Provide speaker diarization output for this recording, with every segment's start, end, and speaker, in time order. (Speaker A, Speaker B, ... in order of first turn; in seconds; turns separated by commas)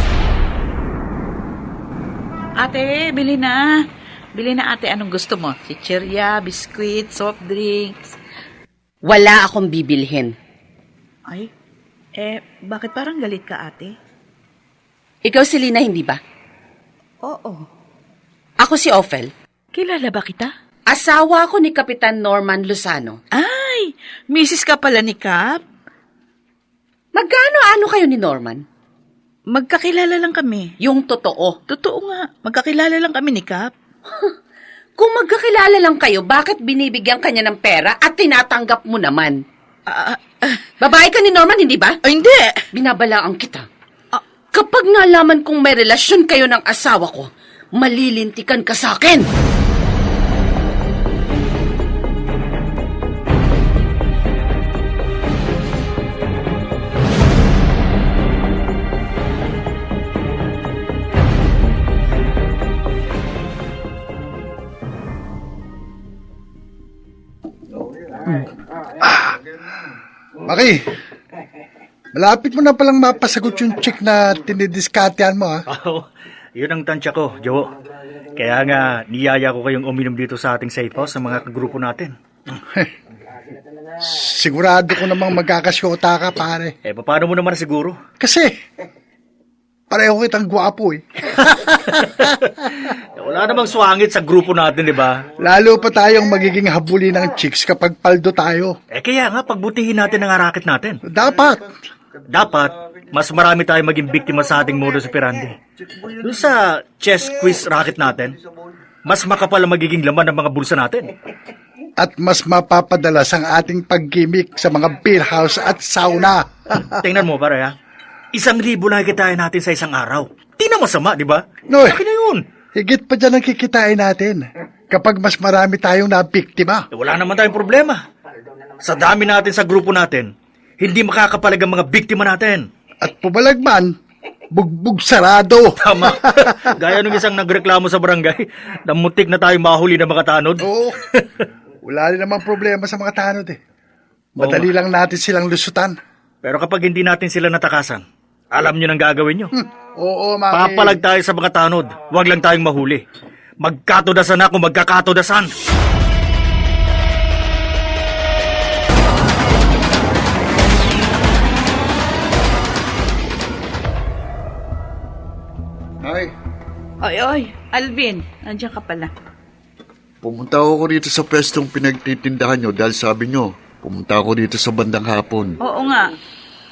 Speaker A: 2.6-3.6, Speaker A: 4.3-8.1, Speaker B: 9.0-10.3, Speaker A: 12.2-13.9, Speaker B: 15.2-16.2, Speaker A: 17.2-17.6, Speaker B: 18.6-19.3, Speaker A: 19.7-20.5, Speaker B: 20.9-23.2, Speaker A: 23.4-25.6, Speaker B: 27.1-28.6, Speaker A: 29.5-30.7, Speaker B: 30.8-31.6, Speaker A: 31.7-33.7, Speaker B: 35.0-39.4, Speaker A: 39.9-40.6, Speaker B: 40.8-42.0, Speaker A: 42.0-42.6, Speaker B: 42.7-43.6, Speaker B: 44.5-49.2, Speaker C: 69.0-69.4, Speaker C: 70.4-70.8, Speaker C: 72.1-75.6, Speaker D: 75.7-77.7, Speaker D: 78.3-82.1, Speaker C: 84.0-86.7, Speaker D: 86.8-88.0, Speaker C: 88.2-88.5, Speaker C: 89.9-92.5, Speaker D: 93.2-95.2, Speaker C: 95.4-98.7, Speaker D: 98.9-101.0, Speaker C: 101.0-101.7, Speaker D: 102.3-105.5, Speaker D: 106.2-108.4, Speaker D: 109.0-111.1, Speaker C: 112.0-117.0, Speaker D: 117.0-117.7, Speaker D: 118.3-122.4, Speaker C: 121.7-122.0, Speaker C: 122.7-126.9, Speaker D: 126.9-128.0, Speaker D: 128.8-132.7, Speaker C: 133.0-133.9, Speaker C: 134.5-136.9, Speaker D: 135.8-141.3, Speaker C: 140.6-141.0, Speaker C: 141.8-143.6, Speaker C: 144.4-145.9, Speaker D: 144.4-144.7, Speaker D: 146.4-149.5, Speaker C: 149.6-151.0, Speaker D: 150.5-153.0, Speaker D: 153.6-155.5, Speaker E: 166.0-166.3, Speaker A: 167.0-169.1, Speaker E: 170.2-175.6, Speaker A: 175.6-176.1